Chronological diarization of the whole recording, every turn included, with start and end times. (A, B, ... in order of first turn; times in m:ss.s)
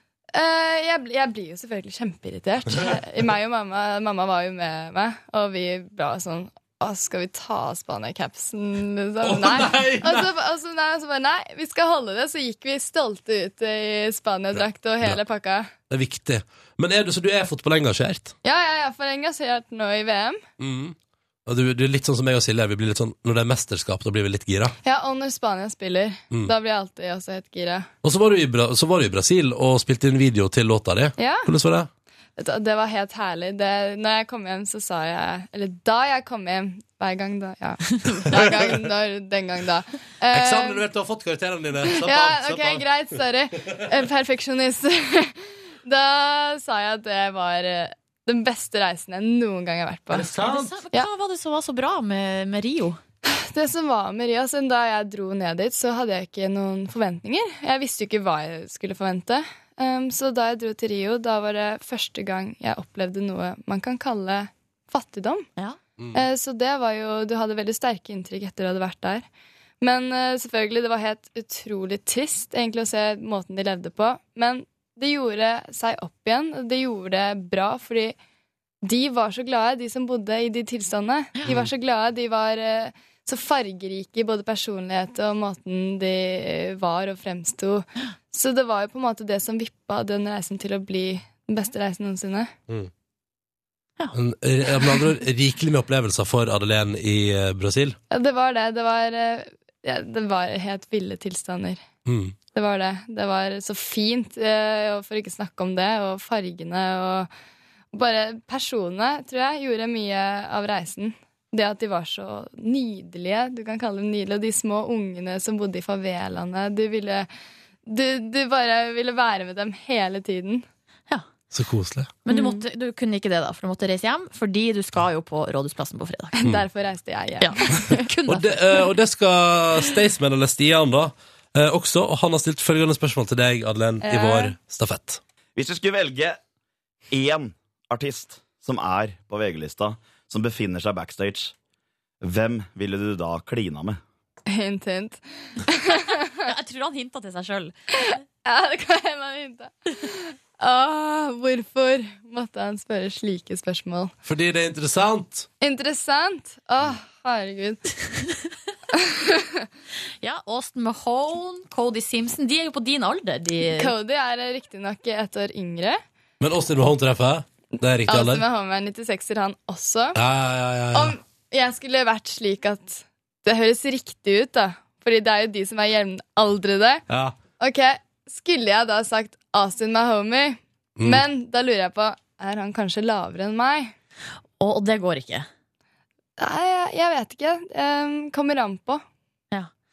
0:00.3-0:15.7 A
0:09.2-0:10.3 B
0:14.5-0:15.2 B
0:15.9-0:18.3 B
0:18.4-0:20.4 A
0:20.6-0:24.7 B
0:24.8-0:27.9 A
0:28.0-0:31.9 B
0:31.2-0:31.5 A
0:32.4-0:40.8 A
0:38.1-0:38.4 C
0:38.3-0:38.7 B
0:40.3-0:42.9 B
0:41.9-0:50.3 A
0:50.1-0:50.8 B
0:50.3-0:53.0 C
0:53.3-1:05.4 A
1:06.0-1:06.2 B
1:06.1-1:09.3 A
1:09.8-1:18.2 A
1:18.8-1:32.5 A
1:34.1-1:38.0 B
1:38.1-1:41.8 A
1:42.0-1:42.3 B
1:42.5-1:47.3 A
1:47.9-1:57.3 A
1:57.9-2:00.6 A
2:01.5-2:02.1 B
2:02.3-2:06.4 C
2:06.4-2:08.1 A
2:07.4-2:08.8 C
2:08.3-2:15.2 B
2:14.0-2:14.6 A
2:15.6-2:16.4 D
2:17.1-2:21.5 D
2:22.2-2:24.0 D
2:24.5-2:26.3 A
2:26.4-2:27.7 C
2:28.0-2:34.1 A
2:34.2-2:35.5 B
2:35.6-2:37.9 A
2:39.0-2:39.6 A
2:40.2-2:43.9 C
2:43.7-2:46.0 A
2:46.4-2:48.4 B
2:48.1-2:50.2 A
2:50.2-2:51.1 B
2:50.9-2:57.0 A
2:57.1-2:57.4 B
2:57.6-3:03.9 A
3:01.0-3:01.2 B
3:04.6-3:05.5 C
3:06.4-3:09.0 A